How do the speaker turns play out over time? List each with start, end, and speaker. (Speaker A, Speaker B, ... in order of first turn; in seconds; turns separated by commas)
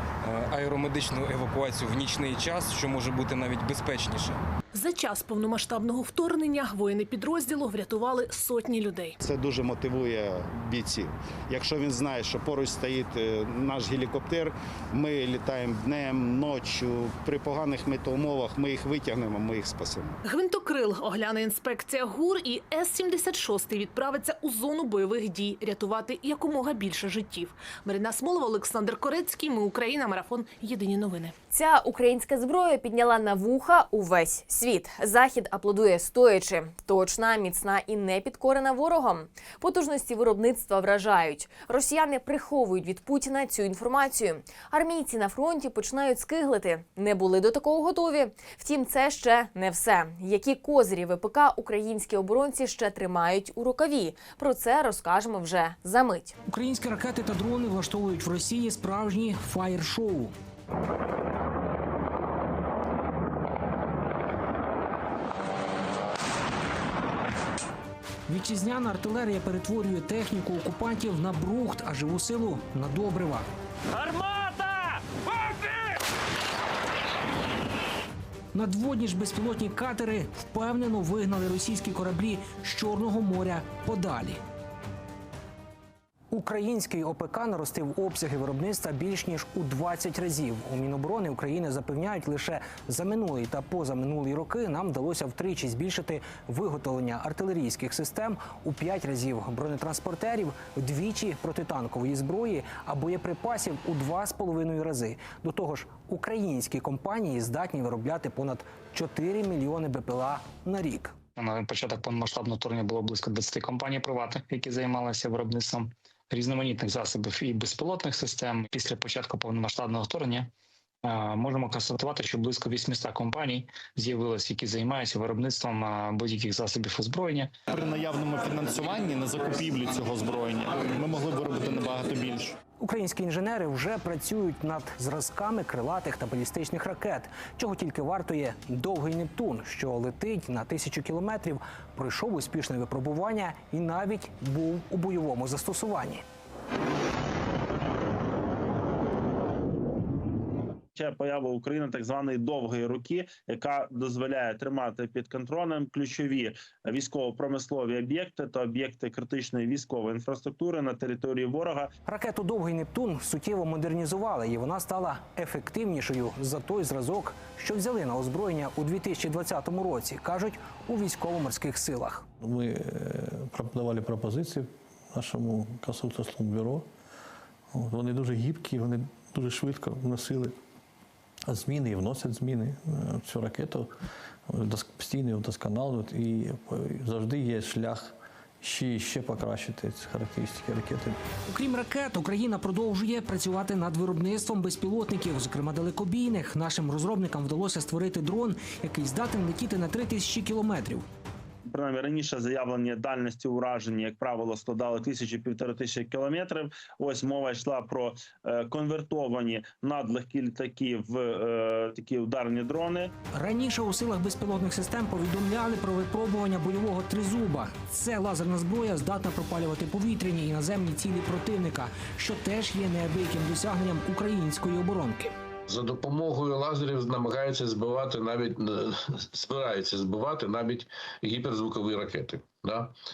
Speaker A: 0.2-4.4, Speaker B: 4.7-9.2, Speaker C: 9.2-20.2, Speaker B: 20.2-31.4, Speaker D: 31.5-56.4, Speaker E: 56.5-60.3, Speaker E: 68.3-73.5, Speaker E: 78.5-84.4, Speaker E: 86.3-111.2, Speaker F: 111.4-120.5, Speaker F: 121.0-127.5, Speaker G: 127.7-132.6, Speaker E: 132.8-146.2, Speaker H: 151.0-161.9, Speaker E: 162.1-172.3, Speaker I: 172.4-176.9, Speaker I: 177.7-180.6, Speaker I: 181.5-183.9, Speaker I: 184.5-191.2, Speaker E: 191.5-201.1, Speaker H: 201.7-213.1, Speaker E: 213.3-225.3, Speaker J: 225.7-232.9